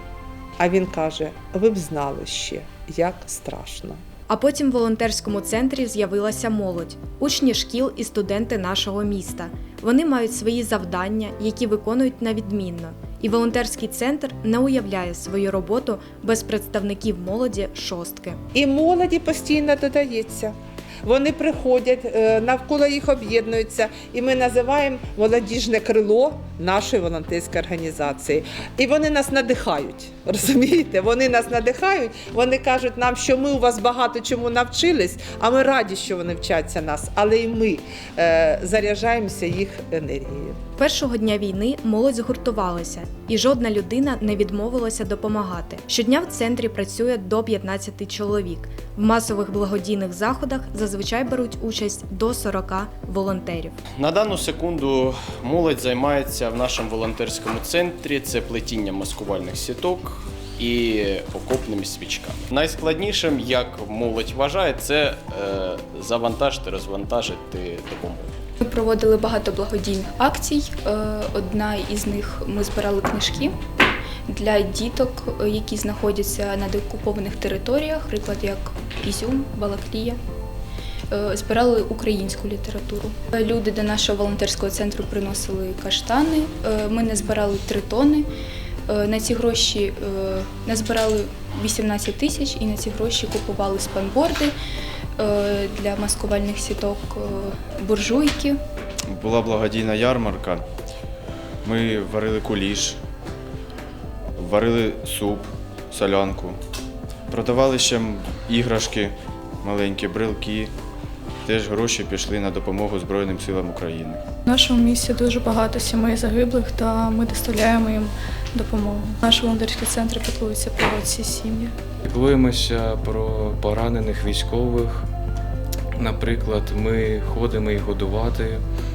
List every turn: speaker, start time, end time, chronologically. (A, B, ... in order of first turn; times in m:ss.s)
0:00.6-0:04.0 A
0:04.3-0:18.4 B
0:18.5-0:40.6 A
0:40.8-0:53.7 B
0:54.0-1:08.3 C
1:08.6-1:13.6 D
1:14.3-1:20.2 D
1:21.1-1:28.3 D
1:28.9-1:34.5 D
1:35.2-1:38.6 D
1:39.1-1:40.6 E
1:41.6-1:43.0 E
1:44.4-1:46.6 E
1:47.3-1:50.7 E
1:51.5-1:54.2 E
1:54.5-1:59.7 F
2:00.3-2:01.1 F
2:02.0-2:05.0 G
2:06.0-2:08.6 G